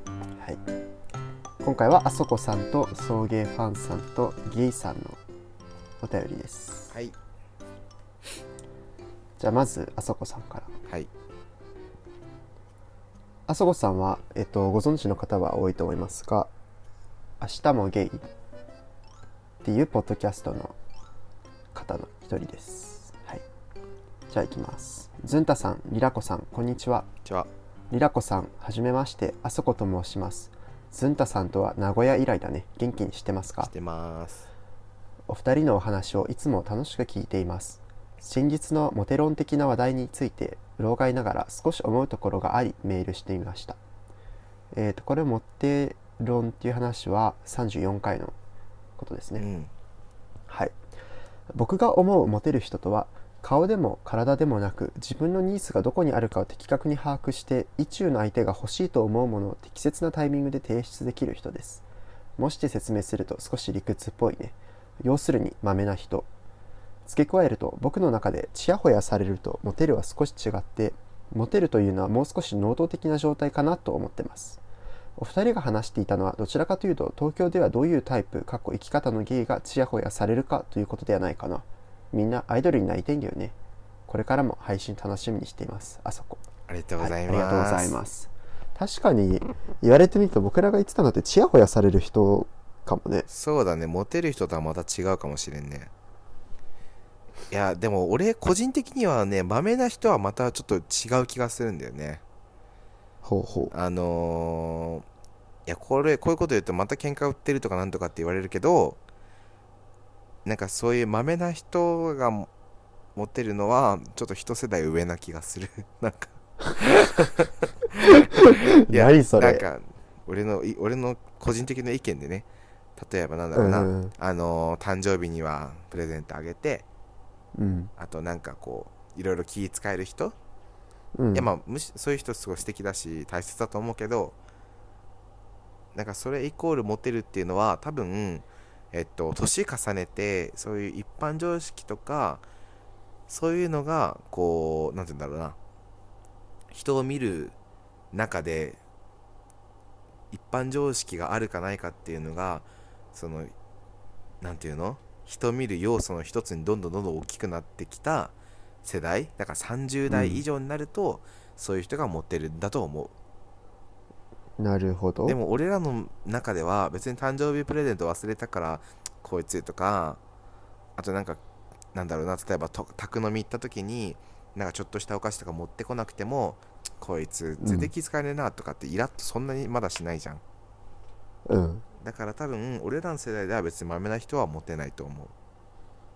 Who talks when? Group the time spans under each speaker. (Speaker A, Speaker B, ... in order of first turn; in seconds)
Speaker A: 1.6-5.2, 6.0-6.9, 9.4-10.7, 13.5-16.5, 17.4-18.2, 19.6-20.8, 21.7-23.4, 24.3-27.1, 27.9-33.7, 35.3-43.8, 44.7-48.4, 49.0-49.5, 50.5-50.8, 51.5-61.8, 62.4-66.3, 67.1-74.6, 75.2-83.5, 84.1-86.4, 87.0-93.3, 103.2-103.7, 118.1-119.6, 123.5-124.1, 127.5-127.9, 131.2-131.5, 160.1-160.4, 164.6-165.4, 177.6-177.9, 181.5-181.8
Speaker B: 6.9-7.2, 33.6-34.5, 49.4-49.7, 86.7-88.0, 93.3-95.9, 97.5-102.2, 103.7-105.1, 105.7-109.0, 110.5-112.5, 113.2-126.8, 128.0-130.4, 131.3-134.4, 135.9-142.4, 143.3-145.6, 146.7-147.6, 148.1-148.8, 150.3-153.5, 154.4-163.1, 165.3-170.2, 171.0-171.4, 171.9-180.4, 182.0-185.3